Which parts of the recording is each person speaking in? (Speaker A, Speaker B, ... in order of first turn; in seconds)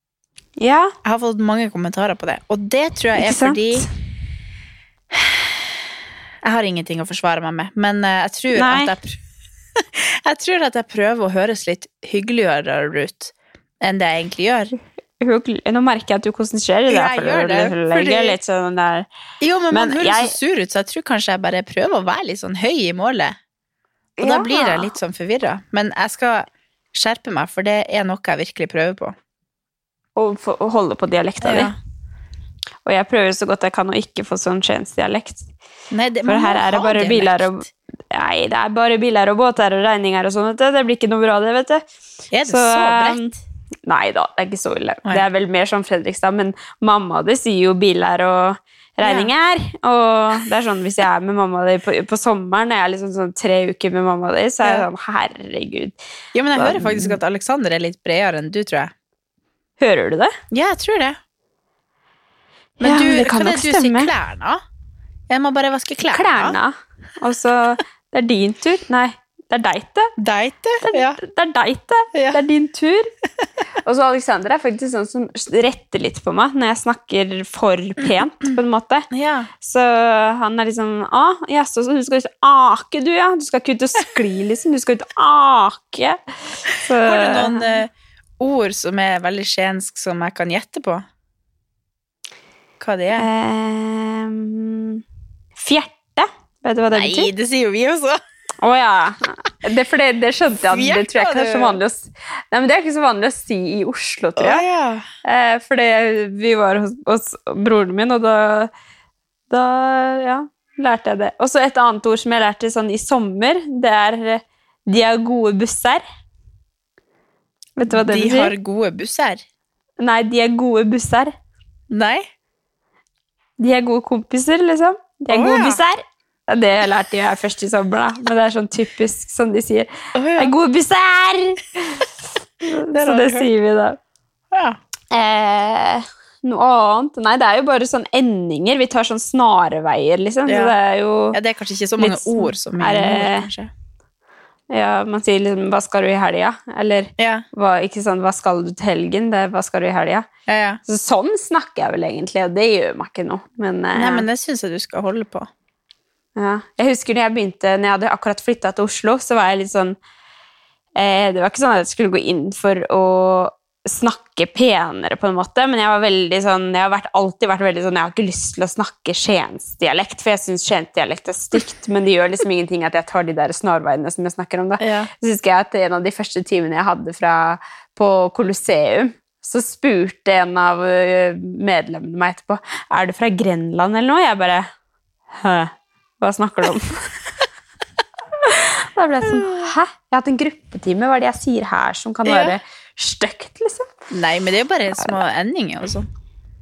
Speaker A: 0.6-0.9, 3.2-3.9, 8.5-8.9, 15.2-19.1, 19.7-20.4, 24.2-25.0, 30.2-31.7, 32.9-35.5, 36.3-41.8, 42.5-43.4, 43.9-56.0, 56.5-57.2, 59.8-60.3, 62.8-64.1, 66.1-70.1, 70.8-73.1, 73.8-79.1, 79.6-87.7, 93.1-95.0, 95.6-97.3, 98.6-104.6, 105.2-108.7, 109.5-116.0, 117.8-118.5, 120.0-121.3, 123.6-132.0, 132.6-134.0, 135.1-141.4, 142.0-143.5, 144.7-150.3, 150.9-154.3, 156.4-160.0, 161.0-184.7, 185.3-187.1, 188.4-193.9
Speaker B: 1.0-3.9, 5.1-5.7, 6.4-9.2, 9.8-14.7, 16.9-18.4, 19.4-23.4, 24.2-29.2, 31.4-31.8, 35.9-37.7, 42.3-43.3, 49.0-49.3, 56.3-58.9, 60.5-61.2, 62.8-64.6, 65.3-66.6, 70.2-71.2, 72.1-72.4, 79.1-79.5, 87.0-91.0, 92.8-93.3, 96.9-98.2, 100.7-101.8, 104.4-105.1, 117.9-119.4, 121.9-122.3, 125.3-125.8, 130.2-130.5, 132.9-133.5, 134.5-134.8, 140.5-140.8, 141.3-143.7, 147.2-147.5, 150.5-150.8, 154.0-155.5, 174.8-175.1, 189.2-189.7, 192.2-192.6, 194.1-196.1